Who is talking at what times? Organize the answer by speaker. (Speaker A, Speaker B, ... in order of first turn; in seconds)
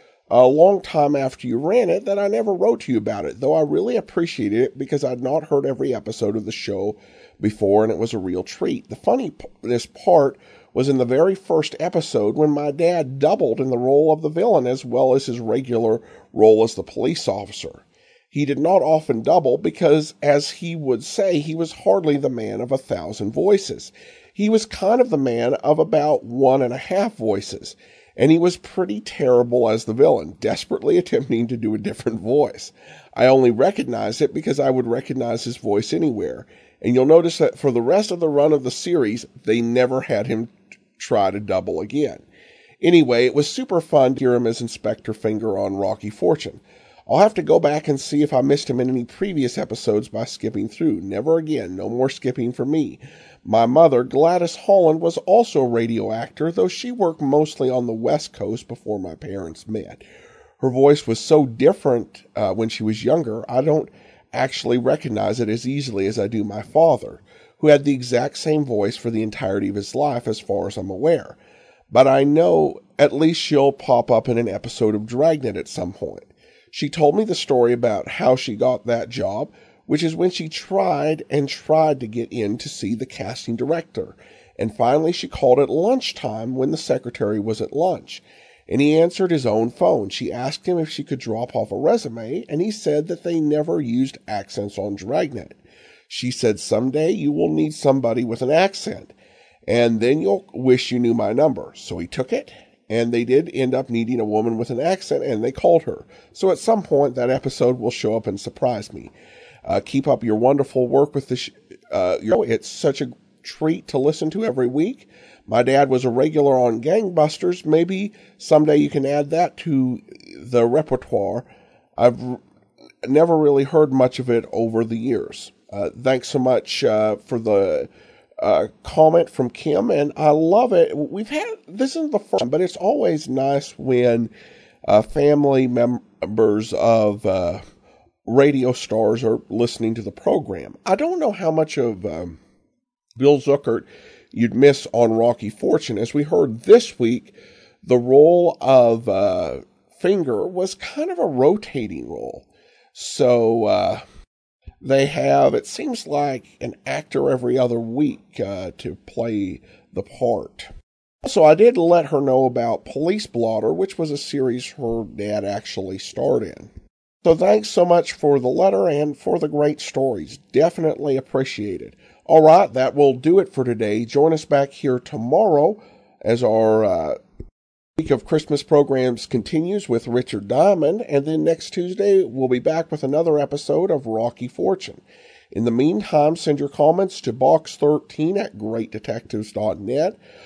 Speaker A: 0.3-42.2, 42.8-60.0, 60.6-71.4, 71.9-95.6, 96.1-99.1, 99.7-109.1, 109.6-122.4, 123.0-127.9, 128.4-134.3, 134.9-137.6, 138.2-142.4, 143.2-154.0, 154.8-160.7, 161.2-166.7, 167.2-177.2, 178.0-190.2